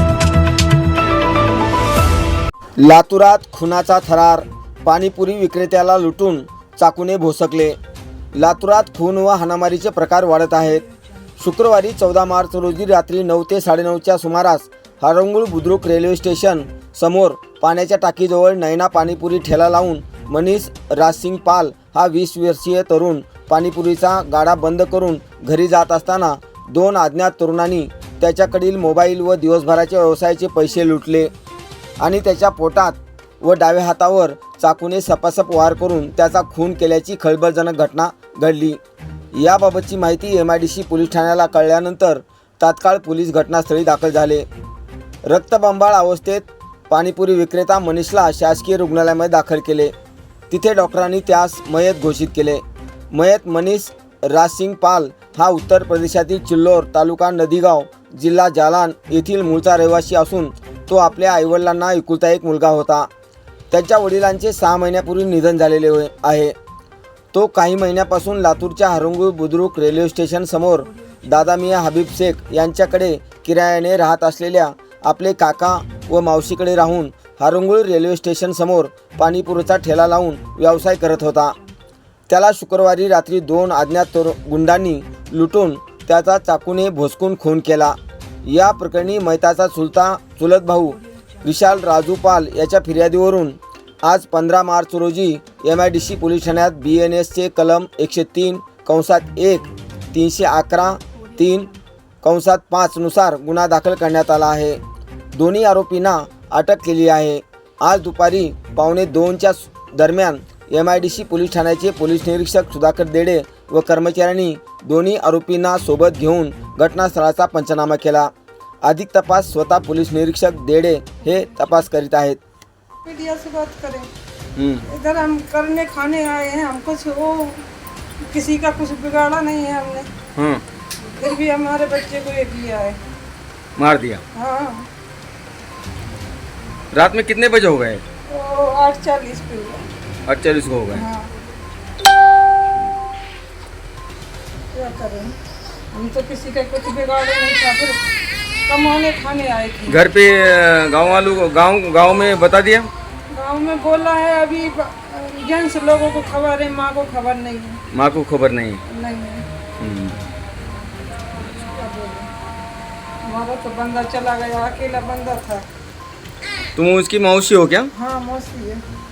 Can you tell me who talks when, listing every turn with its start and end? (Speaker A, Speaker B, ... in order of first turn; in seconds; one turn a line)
Speaker A: 2.8-7.8
Speaker A: 8.3-10.8
Speaker A: 11.4-31.3
Speaker A: 32.0-38.8
Speaker A: 39.3-44.5
Speaker A: 45.2-49.9
Speaker A: 50.5-63.1
Speaker A: 63.7-66.5
Speaker A: 67.3-81.6
Speaker A: 82.3-104.8
Speaker A: 105.3-118.3
Speaker A: 118.8-122.4
Speaker B: 123.0-124.1
Speaker B: 124.8-127.6
Speaker B: 128.2-130.1
Speaker C: 130.3-130.6
Speaker B: 131.2-133.0
Speaker C: 133.8-134.2
Speaker B: 134.3-134.9
Speaker C: 136.9-138.0
Speaker B: 138.2-139.9
Speaker C: 140.2-141.0
Speaker B: 140.9-141.3
Speaker B: 144.7-145.3
Speaker B: 145.9-148.1
Speaker B: 148.7-150.0
Speaker C: 149.9-152.9
Speaker B: 153.3-157.8
Speaker C: 157.9-158.8
Speaker B: 158.8-159.4
Speaker C: 159.8-160.2
Speaker B: 161.6-162.3
Speaker B: 163.2-165.7
Speaker C: 166.8-167.9
Speaker B: 167.9-168.8